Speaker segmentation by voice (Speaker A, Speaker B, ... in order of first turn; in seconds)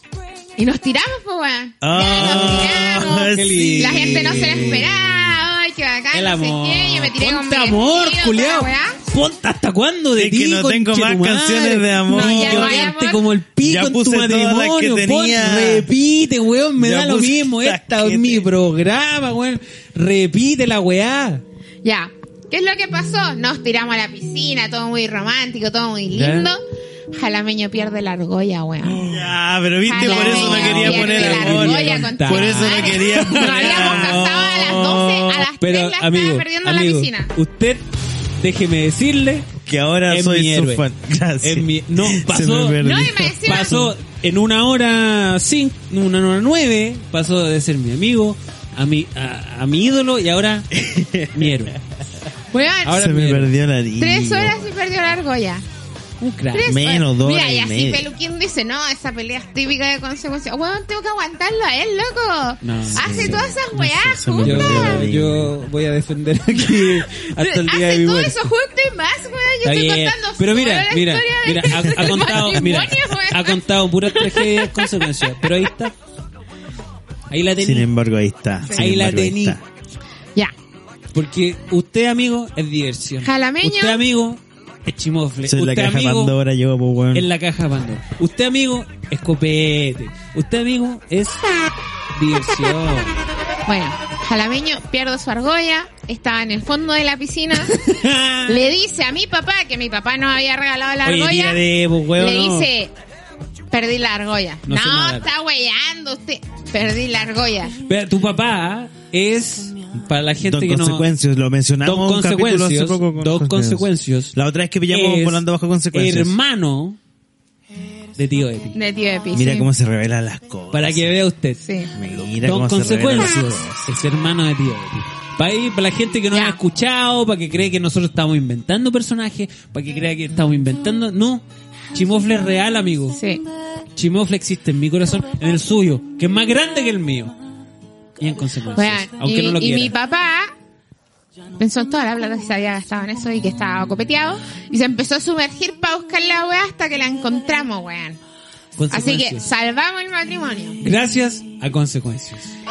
Speaker A: 0.6-9.0, 12.1-13.2, 21.8-29.1, 29.9-37.3, 42.8-43.8, 52.5-53.0, 54.0-55.6, 56.5-65.0, 66.6-75.1, 83.2-84.0, 93.7-97.9, 98.5-102.9, 103.7-107.8, 118.7-119.7, 121.6-121.9, 126.3-126.6, 133.1-133.4, 138.8-140.5, 141.6-148.2, 148.9-150.8
Speaker B: 1.8-4.8, 10.1-12.9, 13.6-15.9, 16.8-18.5, 28.8-35.5, 39.6-43.9, 50.7-51.5, 52.9-54.6, 56.6-58.0, 63.0-65.5, 71.8-72.4, 77.6-79.6, 85.4-87.3, 110.5-116.3, 119.3-121.1, 121.9-123.9
Speaker C: 2.0-4.9, 6.1-21.4, 26.1-26.5, 29.9-34.2, 35.6-37.9, 38.4-39.5, 40.1-40.8, 41.4-50.7, 51.3-51.8, 52.8-53.5, 56.2-56.7, 62.6-68.5, 69.6-75.9, 77.3-77.9, 78.7-79.6, 81.1-86.3, 87.1-91.4, 92.1-93.2, 97.7-98.6, 101.0-102.7, 104.7-105.3, 107.9-111.0, 111.8-114.3, 114.9-117.0, 118.2-118.7, 120.7-121.6, 122.2-133.2, 133.9-137.3, 138.2-139.9, 148.8-149.4, 150.8-152.5